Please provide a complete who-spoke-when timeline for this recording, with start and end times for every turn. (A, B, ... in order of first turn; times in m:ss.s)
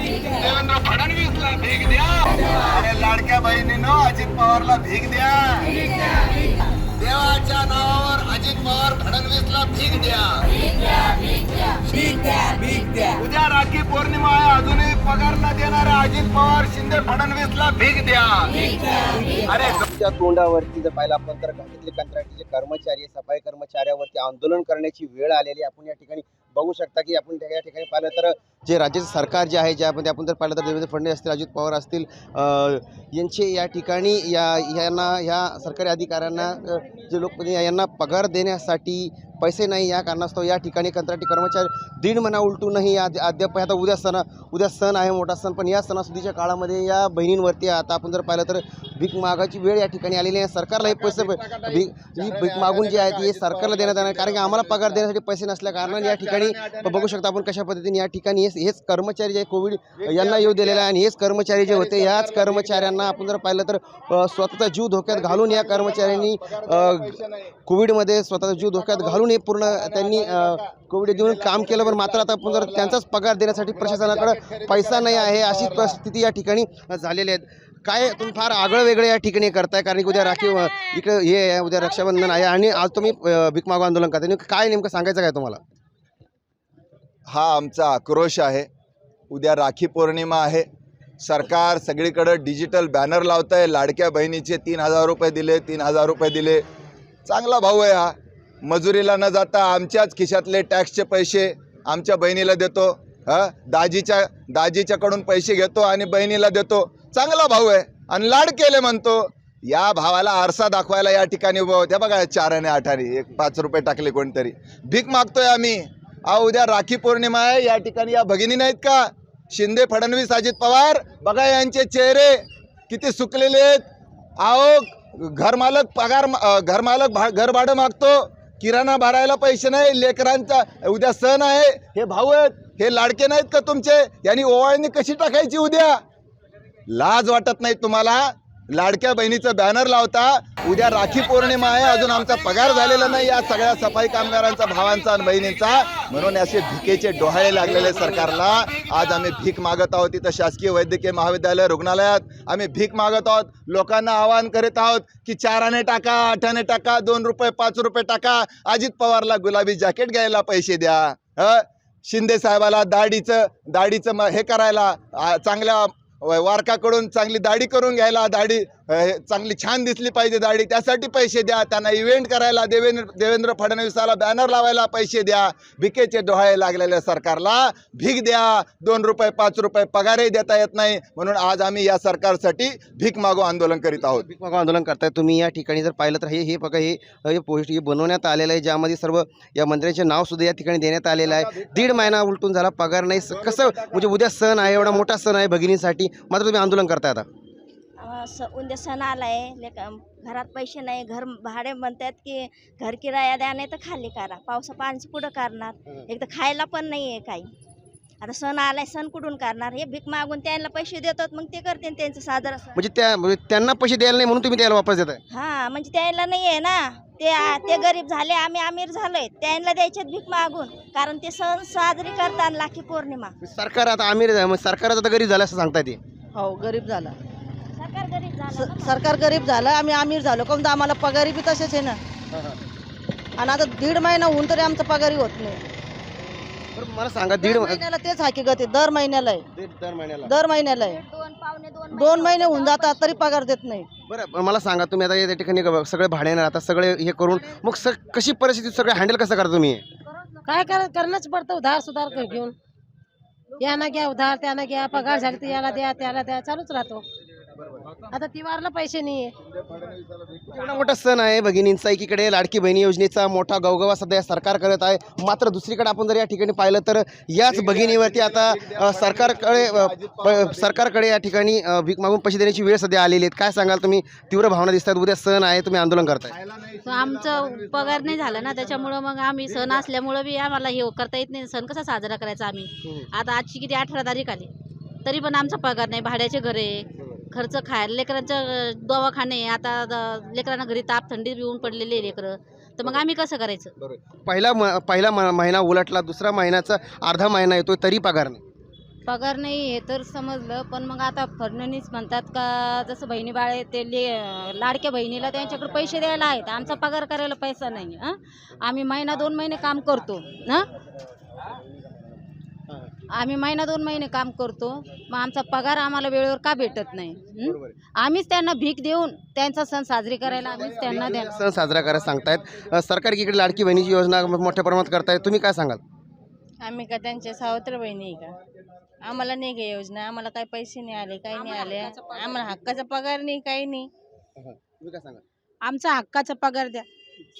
0:00.2-0:05.7 A
0:07.0-0:10.7 A
0:11.9-0:18.9 A
0:19.4-0:19.8 A
0:19.8-1:25.6 B
0:50.9-0:55.0 A
0:55.8-0:57.0 A
1:00.0-1:00.8 A
1:01.8-1:02.8 A
1:05.3-1:07.5 A
1:09.7-1:10.6 A
1:11.1-1:12.9 A
1:13.8-1:15.9 A
1:27.3-1:28.7 A
1:29.3-1:30.6 A
1:31.2-1:36.6 A
1:37.3-1:38.1 A
1:38.6-2:02.3 A
2:02.9-2:03.8 A
2:04.4-2:16.0 A
2:16.9-3:04.2 A
3:04.0-3:17.2 B
3:13.6-3:14.0 A
3:18.0-3:27.5 C
3:28.2-3:32.8 C
3:32.7-3:35.2 B
3:35.3-3:43.3 C
3:43.4-3:46.0 B
3:46.4-3:47.1 D
3:47.7-3:49.6 C
3:48.5-3:52.0 D
3:52.3-3:52.6 B
3:53.4-3:55.6 D
3:56.7-3:57.8 B
3:57.4-3:59.4 D
3:59.5-4:00.3 B
4:00.2-4:01.0 D
4:00.7-4:03.2 C
4:01.9-4:03.9 D
4:04.1-4:09.8 B
4:10.4-4:12.5 E
4:13.6-4:17.0 E
4:18.1-4:19.3 E
4:20.0-4:20.4 A
4:20.5-4:36.4 B
4:27.6-4:30.6 A
4:36.4-4:38.6 A
4:36.8-4:44.5 F
4:45.0-4:53.7 F
4:53.8-4:58.4 B
4:59.1-5:10.6 F
5:13.1-5:21.3 F
5:17.4-5:17.7 B
5:20.7-5:25.8 B
5:26.6-5:28.4 G
5:29.0-5:33.9 G
5:34.4-5:35.2 B
5:36.0-5:36.4 F